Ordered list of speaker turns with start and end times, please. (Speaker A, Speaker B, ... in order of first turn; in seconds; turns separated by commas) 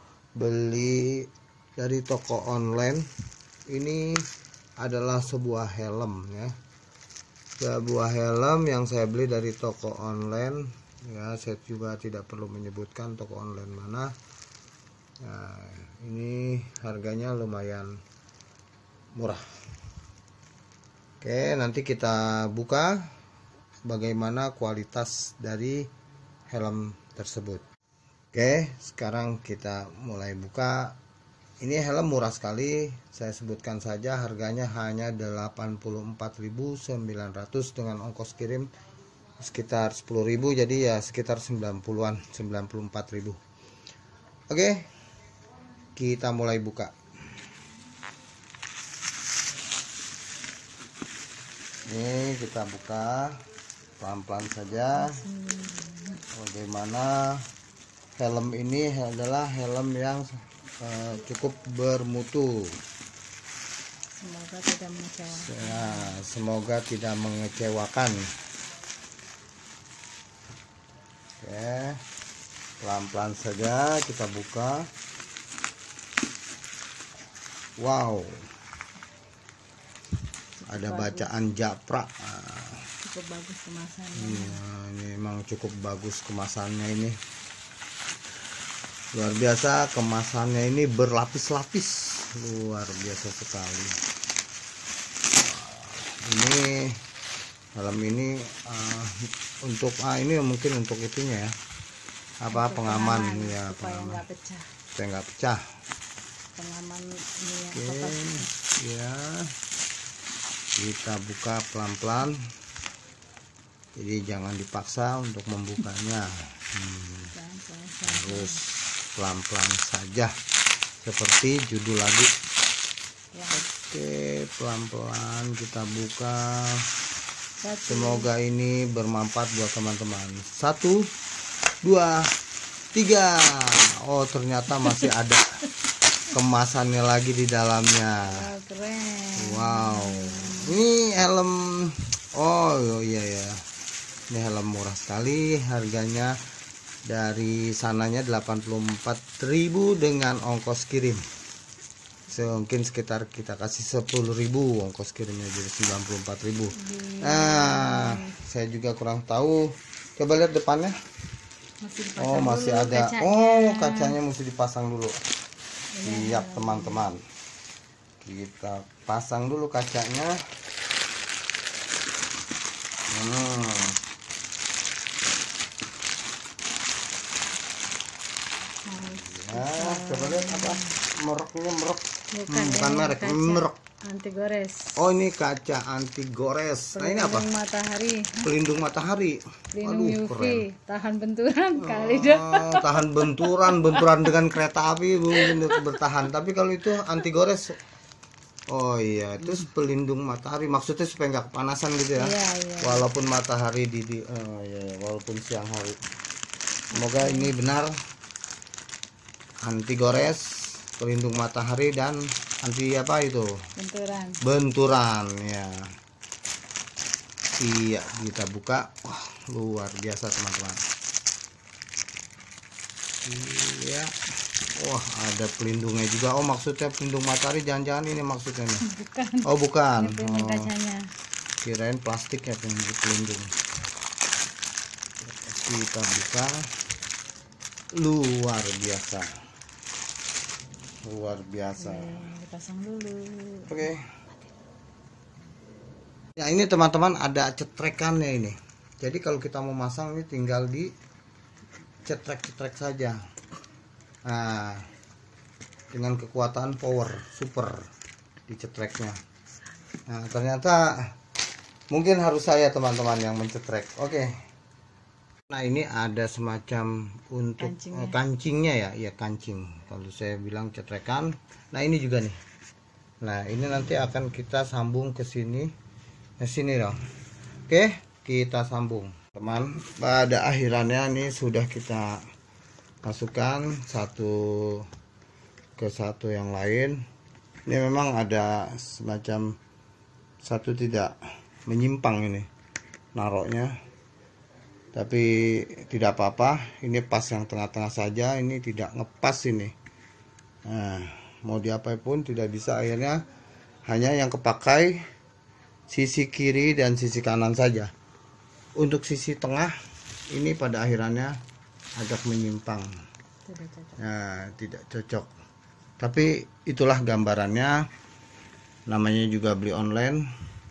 Speaker A: 0.4-1.3, Speaker A: 1.8-3.0, Speaker A: 3.7-4.2, Speaker A: 4.8-6.5, Speaker A: 7.6-14.1, Speaker A: 15.2-18.0, Speaker A: 19.1-19.4, Speaker A: 21.2-23.1, Speaker A: 23.9-25.9, Speaker A: 26.5-27.6, Speaker A: 28.3-31.0, Speaker A: 31.6-38.7, Speaker A: 39.4-43.4, Speaker A: 44.5-44.9, Speaker A: 46.0-46.9, Speaker A: 51.9-53.4, Speaker A: 54.0-55.2, Speaker B: 54.9-56.2, Speaker A: 56.3-57.5, Speaker A: 58.2-62.8, Speaker B: 64.1-66.2, Speaker A: 65.3-68.3, Speaker A: 71.4-72.0, Speaker A: 72.8-74.9, Speaker A: 77.8-78.5, Speaker B: 80.6-81.3, Speaker A: 80.7-82.9, Speaker B: 83.0-84.6, Speaker A: 84.1-87.2, Speaker A: 89.1-94.0, Speaker A: 95.3-97.0, Speaker A: 97.7-101.5, Speaker A: 102.4-104.2, Speaker B: 102.5-104.7, Speaker A: 104.9-105.6, Speaker B: 106.5-108.5, Speaker A: 107.7-109.5, Speaker A: 110.8-112.4, Speaker A: 114.0-117.3, Speaker B: 117.3-118.6, Speaker A: 118.0-120.3, Speaker A: 121.0-122.3, Speaker B: 123.3-123.7, Speaker A: 123.5-126.8, Speaker B: 127.6-128.3, Speaker A: 127.9-131.1, Speaker A: 131.8-132.3, Speaker A: 132.9-135.6, Speaker A: 136.3-138.4, Speaker B: 138.3-140.8, Speaker A: 139.4-143.6, Speaker A: 144.3-146.4, Speaker A: 147.1-151.2, Speaker A: 152.3-160.9, Speaker B: 156.7-158.3, Speaker B: 161.8-164.2, Speaker A: 162.2-165.2, Speaker B: 165.9-167.1, Speaker A: 166.0-167.2, Speaker A: 168.2-170.4, Speaker A: 173.1-174.0, Speaker B: 178.8-180.9, Speaker A: 179.2-183.8, Speaker B: 182.3-185.0, Speaker A: 184.9-187.5, Speaker B: 186.9-188.5, Speaker A: 188.4-190.6, Speaker B: 189.7-194.3, Speaker A: 191.8-197.8, Speaker B: 195.4-195.8, Speaker A: 198.7-206.0, Speaker B: 202.2-203.1, Speaker B: 206.9-207.5, Speaker A: 206.9-208.0, Speaker A: 209.6-213.6, Speaker B: 213.8-214.4, Speaker A: 214.4-215.9, Speaker A: 217.6-220.8, Speaker A: 223.2-224.1, Speaker A: 224.7-228.8, Speaker B: 228.8-231.1, Speaker A: 229.4-230.7, Speaker A: 231.6-233.5, Speaker A: 235.2-236.7, Speaker A: 237.9-239.3, Speaker A: 241.0-242.2, Speaker B: 241.8-243.9, Speaker A: 243.7-244.1, Speaker A: 246.4-250.9, Speaker A: 252.0-253.2, Speaker A: 254.2-254.9, Speaker A: 255.9-257.9, Speaker A: 258.5-259.2, Speaker A: 260.1-261.1, Speaker A: 261.9-264.4, Speaker A: 265.5-272.4, Speaker B: 267.6-268.2, Speaker A: 273.2-275.7, Speaker A: 276.4-277.0, Speaker A: 277.7-282.2, Speaker A: 283.0-284.9, Speaker A: 285.8-287.0, Speaker A: 287.6-289.6, Speaker A: 290.4-292.5, Speaker A: 293.1-293.7, Speaker A: 294.9-299.7, Speaker A: 300.6-303.2, Speaker A: 303.9-305.0, Speaker A: 305.9-307.9, Speaker A: 308.8-309.7, Speaker A: 310.3-311.4, Speaker A: 312.0-312.9, Speaker B: 313.5-313.9, Speaker A: 314.0-315.3, Speaker A: 316.0-317.9, Speaker A: 318.9-320.2